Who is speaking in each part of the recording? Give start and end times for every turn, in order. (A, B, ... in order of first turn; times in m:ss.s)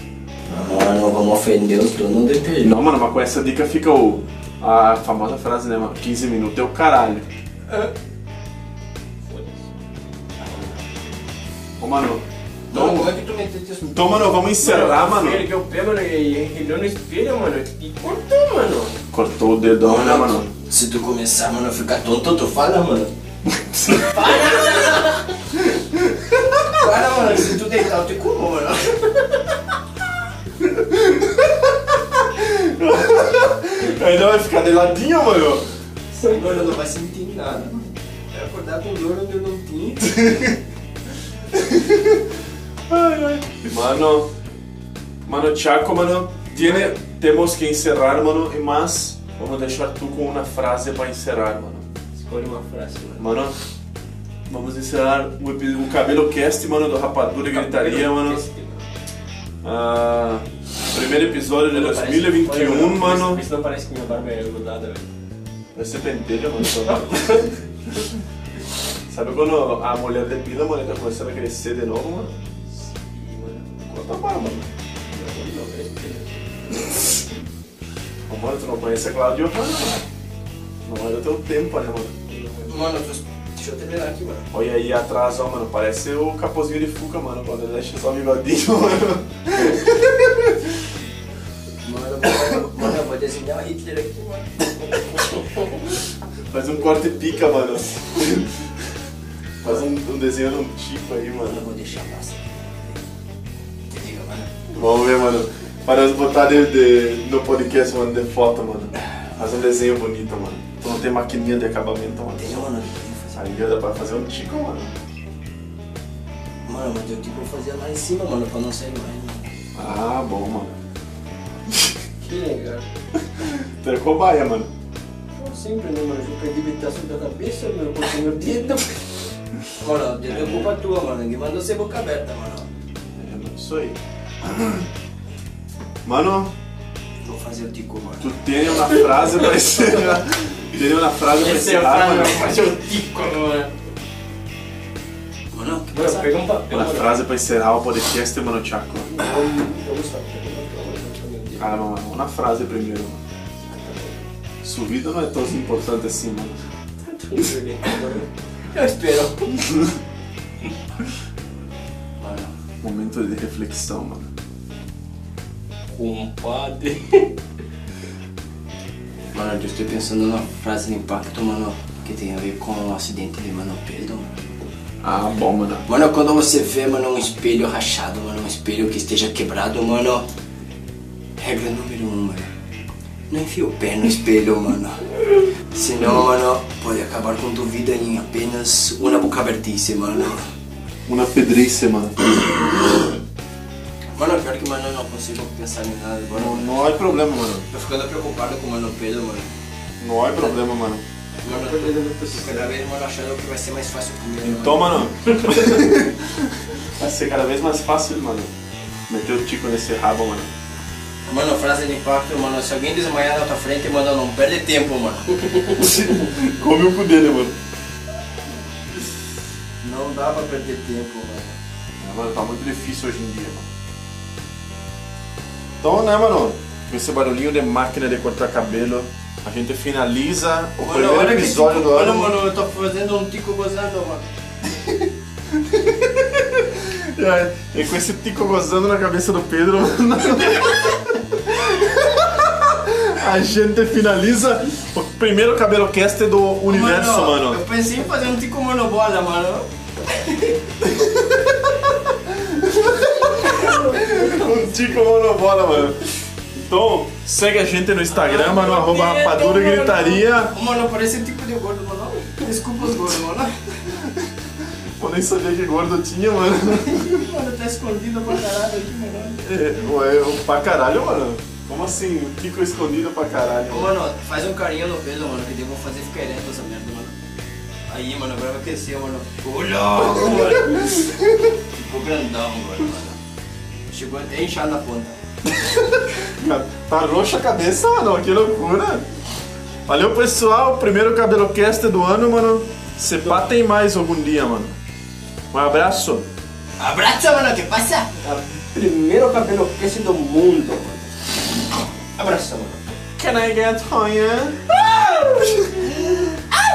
0:00.5-0:02.8 A
0:02.6-0:07.3 B
0:09.2-0:09.7 C
0:11.8-0:13.1 B
0:12.7-0:14.5 A
0:13.9-0:15.5 B
0:14.6-0:19.0 C
0:19.1-0:20.5 B
0:19.8-0:23.1 A
0:23.7-0:24.3 B
0:24.0-0:25.1 A
0:24.1-0:25.2 C
0:25.8-0:26.8 B
0:26.7-0:29.2 A
0:30.6-0:35.6 B
0:36.2-0:37.8 A
0:38.3-0:40.5 A
0:40.2-0:40.5 B
0:41.5-0:42.2 B
0:42.9-0:44.3 B
0:45.3-0:51.9 B
0:52.2-0:53.3 C
0:53.2-0:53.6 B
0:54.5-0:58.4 B
0:57.5-0:58.8 C
0:59.6-1:03.4 B
1:01.7-1:05.1 C
1:05.8-1:07.5 B
1:09.1-1:12.4 B
1:12.7-1:13.8 C
1:13.9-1:14.7 B
1:15.1-1:17.3 C
1:18.3-1:20.0 B
1:20.8-1:22.2 B
1:22.3-1:23.0 C
1:22.7-1:24.5 A
1:24.5-1:30.8 B
1:31.8-1:35.0 A
1:36.5-1:38.7 B
1:39.6-1:41.7 B
1:41.4-1:43.0 A
1:43.9-1:44.5 A
1:44.7-1:52.7 B
1:52.4-1:53.5 A
1:53.3-1:54.9 B
1:56.7-1:59.5 A
1:59.8-2:00.8 B
2:02.2-2:02.9 C
2:03.2-2:04.7 B
2:05.4-2:09.0 C
2:09.8-2:12.7 A
2:10.3-2:10.7 C
2:13.1-2:14.9 B
2:16.0-2:16.5 B
2:17.2-2:18.3 A
2:18.2-2:22.6 B
2:19.0-2:20.2 C
2:21.3-2:23.8 C
2:25.5-2:26.3 A
2:25.9-2:27.2 C
2:26.7-2:29.2 B
2:29.1-2:31.8 C
2:31.6-2:33.2 B
2:33.6-2:34.2 C
2:34.6-2:36.6 B
2:37.0-2:38.3 C
2:38.7-2:39.6 A
2:42.2-2:42.5 A
2:42.8-2:44.3 B
2:45.9-2:47.4 C
2:49.3-2:54.5 A
2:55.0-2:55.8 B
2:55.9-3:00.3 A
3:01.4-3:02.5 A
3:03.3-3:10.4 A
3:11.1-3:13.0 B
3:14.2-3:16.7 A
3:16.3-3:17.7 B
3:17.7-3:19.5 A
3:20.0-3:21.0 B
3:21.4-3:25.1 A
3:21.4-3:22.7 C
3:24.4-3:28.5 B
3:29.1-3:30.5 B
3:31.3-3:36.0 A
3:35.8-3:37.6 B
3:39.8-3:41.6 A
3:42.0-3:43.7 B
3:45.8-3:52.4 B
3:50.8-3:54.2 A
3:55.5-4:07.6 B
4:06.7-4:10.6 A
4:10.8-4:20.6 B
4:13.6-4:14.2 C
4:18.3-4:19.1 C
4:18.4-4:23.6 A
4:23.9-4:27.3 B
4:26.7-4:29.4 A
4:29.4-4:33.9 B
4:33.7-4:37.1 A
4:37.9-4:41.0 A
4:40.0-4:41.3 B
4:41.7-4:43.2 A
4:43.9-4:45.2 A
4:45.5-4:49.0 B
4:49.9-4:54.8 B
4:55.5-4:56.3 B
4:56.8-4:58.1 A
4:58.2-5:01.1 C
5:02.2-5:02.8 A
5:03.2-5:06.2 B